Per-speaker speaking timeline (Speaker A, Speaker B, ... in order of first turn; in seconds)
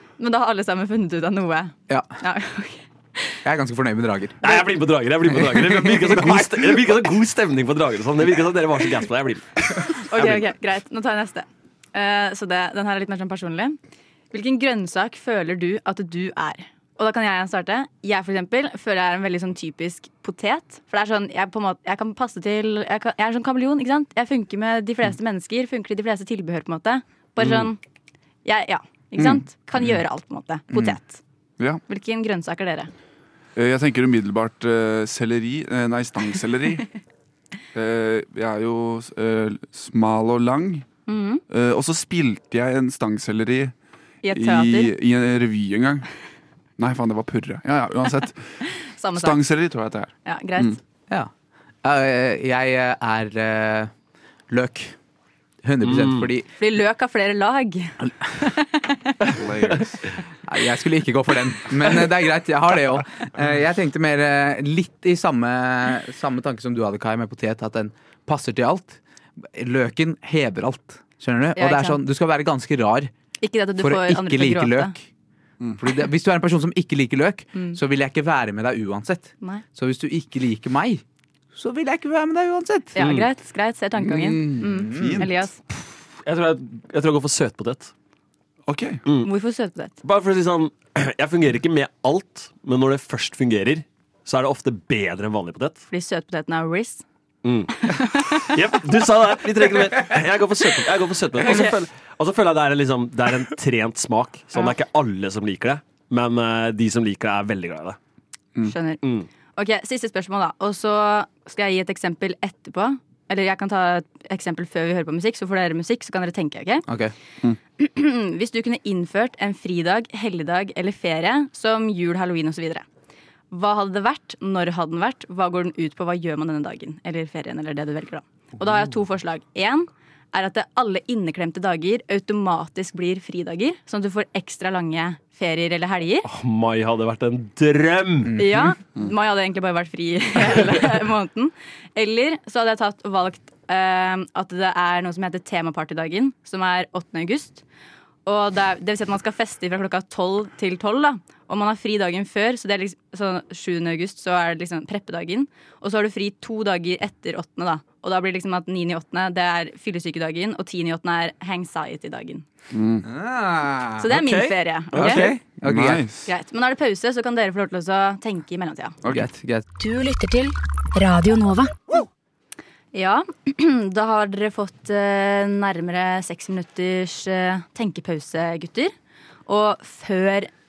Speaker A: 0.2-2.8, 9.9-13.8, 14.3-27.8, 28.4-31.2, 31.9-32.9, 41.1-41.4, 44.2-44.9, 49.0-49.4, 50.2-50.8, 56.6-59.1, 71.5-72.0, 73.4-74.9, 82.9-85.5, 89.2-90.0, 95.9-97.0, 97.8-98.5, 101.4-101.8, 108.6-109.0, 109.5-116.8, 117.8-122.8, 123.5-136.3, 138.4-147.6, 148.2-162.4, 164.0-165.3, 166.2-169.0, 172.9-178.9, 179.5-180.5
Speaker B: 3.4-4.6, 5.4-6.3, 51.8-53.9, 54.5-55.0, 55.6-56.5, 60.5-73.1, 73.8-75.0, 75.8-81.0, 81.5-83.0, 84.4-85.2, 116.9-117.1, 138.2-138.7, 163.0-164.1, 165.0-166.0, 169.1-169.7
Speaker C: 4.4-10.4, 27.4-27.7, 55.8-56.3, 83.0-83.3, 86.2-87.9, 89.0-89.3, 90.0-95.8, 97.4-108.0, 109.0-109.3, 136.2-138.4, 164.1-165.3
Speaker D: 29.1-29.9, 33.5-36.9, 37.7-40.9, 41.5-43.7, 44.3-46.1, 46.8-48.6, 49.1-50.8, 59.3-60.1, 84.5-85.5, 88.7-89.0, 162.7-163.1, 165.6-166.3
Speaker E: 169.8-171.7